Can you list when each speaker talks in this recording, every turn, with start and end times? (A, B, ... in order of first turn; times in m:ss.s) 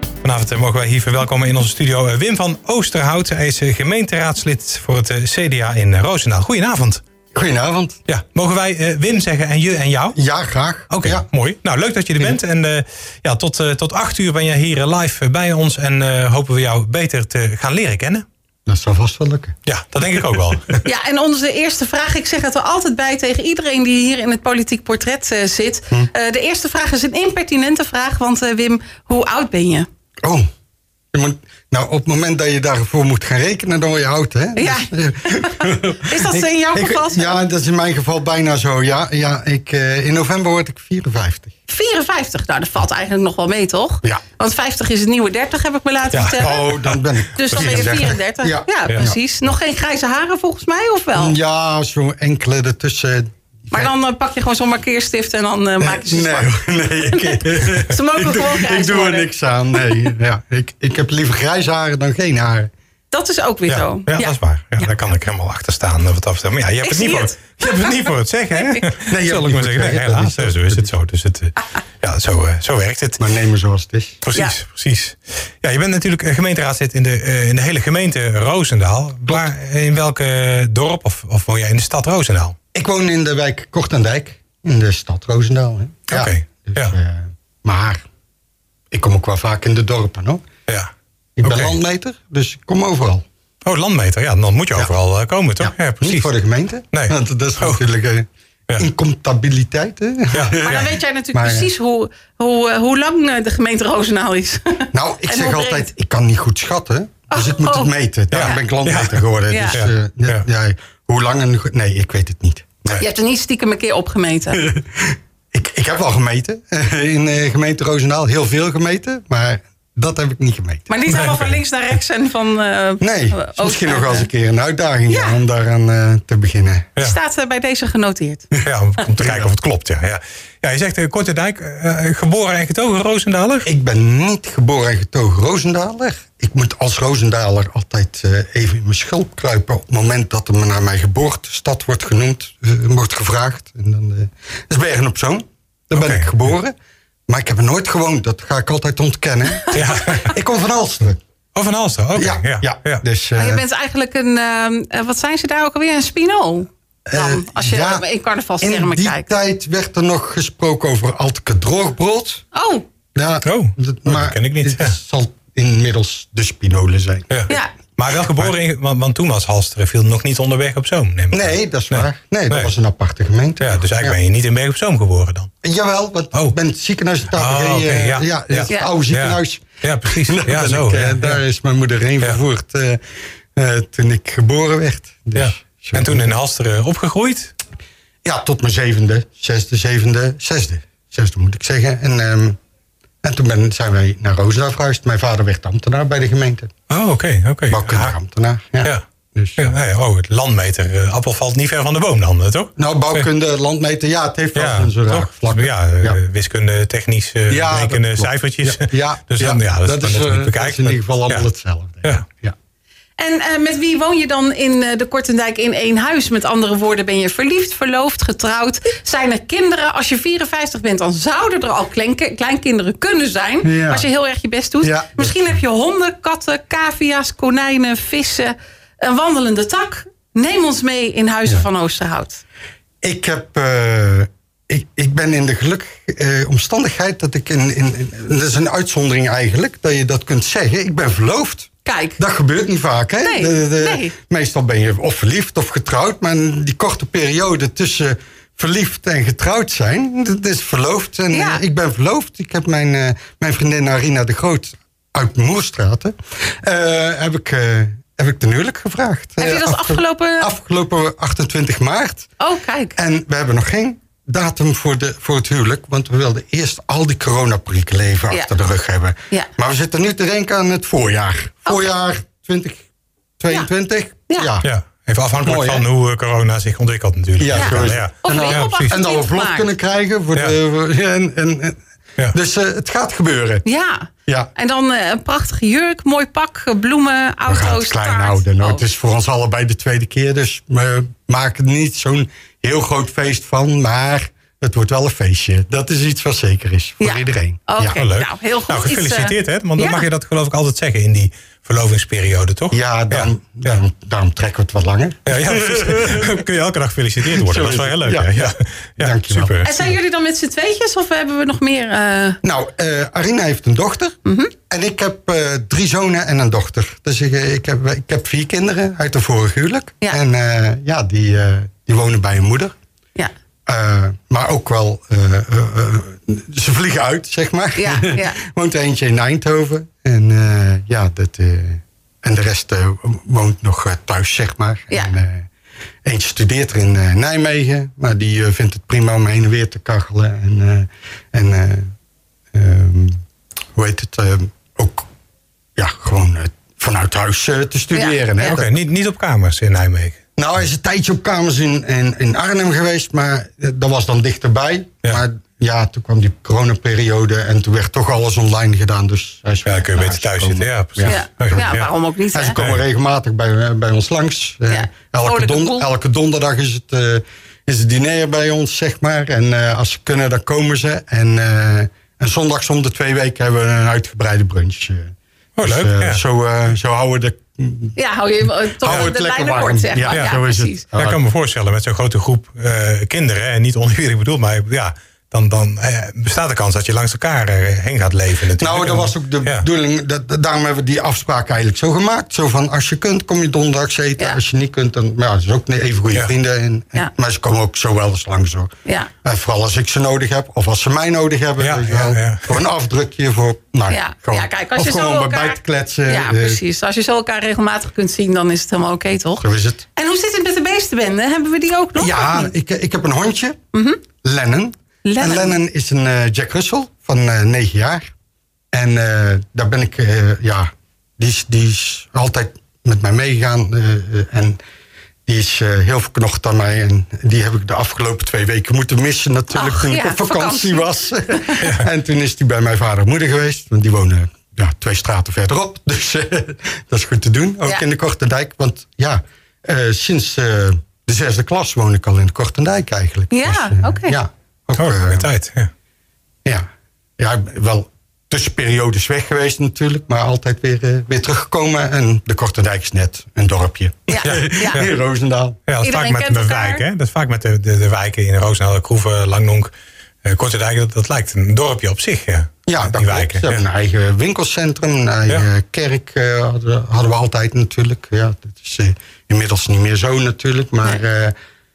0:00.2-0:07.0 A
0:07.3-0:08.0 B
0:08.1-0:10.2 A
0:10.2-0:11.3 B
0:10.9-0:18.2 A
0:18.7-0:19.6 B
0:19.7-0:20.8 A
0:20.8-0:29.9 C
0:31.1-0:41.5 B
0:34.6-0:37.4 C
0:41.7-0:46.8 C
0:46.1-0:47.0 A
0:46.3-0:49.2 B
0:47.4-0:51.4 C
0:47.5-0:48.1 A
0:51.2-0:53.9 B
0:53.7-1:00.0 C
0:55.8-1:02.7 B
1:03.1-1:04.3 C
1:03.7-1:13.3 A
1:06.8-1:08.9 C
1:09.0-1:10.9 B
1:13.2-1:14.2 B
1:14.2-1:22.6 A
1:22.7-1:28.0 B
1:26.1-1:27.0 A
1:28.9-1:30.4 B
1:31.4-1:33.2 B
1:31.4-1:31.8 A
1:33.6-1:36.3 A
1:35.6-1:41.7 B
1:36.9-1:37.8 A
1:40.3-1:40.9 A
1:40.6-1:45.9 C
1:44.9-1:53.0 B
1:47.3-1:48.6 C
1:48.3-1:50.4 A
1:49.5-1:49.8 C
1:52.9-1:54.7 C
1:54.6-2:00.9 B
2:00.9-2:04.3 C
2:01.1-2:01.6 A
2:03.0-2:06.9 B
2:05.1-2:05.4 C
2:07.0-2:08.5 C
2:08.6-2:13.7 A
2:09.2-2:09.5 B
2:13.6-2:26.7 B
2:26.0-2:26.4 A
2:27.3-2:31.2 B
2:29.5-2:29.8 C
2:29.7-2:30.4 A
2:31.6-2:33.0 A
2:32.2-2:33.6 B
2:33.4-2:39.3 C
2:37.1-2:38.0 B
2:38.6-2:42.4 B
2:42.5-2:42.8 C
2:43.1-2:47.4 B
2:43.4-2:45.0 A
2:47.3-2:52.7 A
2:51.3-2:54.2 B
2:53.6-2:55.5 A
2:55.6-3:03.0 B
2:57.3-3:01.4 A
3:03.5-3:06.3 B
3:05.4-3:07.5 A
3:08.2-3:12.6 B
3:13.2-3:16.7 B
3:16.9-3:18.2 A
3:17.7-3:19.7 B
3:19.6-3:23.3 A
3:22.8-3:26.2 B
3:24.6-3:31.5 A
3:27.5-3:32.6 B
3:33.2-3:52.4 C
3:43.6-3:44.1 B
3:44.8-3:45.5 B
3:53.0-4:22.3 B
4:01.8-4:02.2 C
4:03.2-4:04.2 C
4:11.3-4:11.6 C
4:19.4-4:20.5 C
4:22.4-4:23.0 C
4:23.0-4:32.9 B
4:31.7-4:31.9 C
4:33.4-4:34.7 B
4:34.3-4:34.5 C
4:34.6-4:39.0 A
4:35.4-4:35.8 B
4:37.4-4:41.8 B
4:37.5-4:39.7 C
4:42.3-4:43.6 B
4:43.6-4:48.8 C
4:44.3-4:44.5 B
4:47.5-4:58.0 B
4:57.0-5:00.1 C
4:57.8-5:03.8 A
5:02.7-5:06.4 B
5:05.3-5:09.8 A
5:07.3-5:09.9 B
5:09.6-5:12.4 C
5:12.4-5:14.2 B
5:14.2-5:14.5 C
5:14.7-5:22.7 B
5:23.7-5:35.5 B
5:27.8-5:28.4 C
5:36.0-5:41.9 B
5:42.5-5:43.2 B
5:43.8-5:45.1 B
5:45.8-5:48.7 B
5:47.9-5:48.6 C
5:48.4-5:50.2 A
5:50.4-6:01.8 B
5:59.6-6:01.9 A
6:01.0-6:02.6 C
6:02.3-6:18.0 B
6:02.6-6:02.8 A
6:04.7-6:05.9 C
6:15.6-6:16.2 A
6:18.0-6:20.8 C
6:18.7-6:21.2 B
6:18.9-6:19.1 A
6:21.0-6:29.6 A
6:28.6-6:38.7 B
6:38.8-6:39.1 C
6:39.2-6:46.6 B
6:41.6-6:42.6 A
6:43.9-6:49.4 C
6:49.4-6:49.8 B
6:50.0-6:52.5 C
6:52.0-6:53.6 B
6:53.7-6:54.0 C
6:54.2-6:58.1 B
6:55.0-6:55.6 C
6:58.7-7:04.6 B
7:05.3-7:25.3 B
7:09.5-7:11.6 C
7:23.3-7:24.2 C
7:24.8-7:25.7 A
7:27.2-7:35.6 B
7:34.1-7:34.9 C
7:34.2-7:34.9 A
7:35.7-7:39.7 A
7:35.8-7:36.8 C
7:40.2-7:43.5 A
7:42.7-7:51.4 B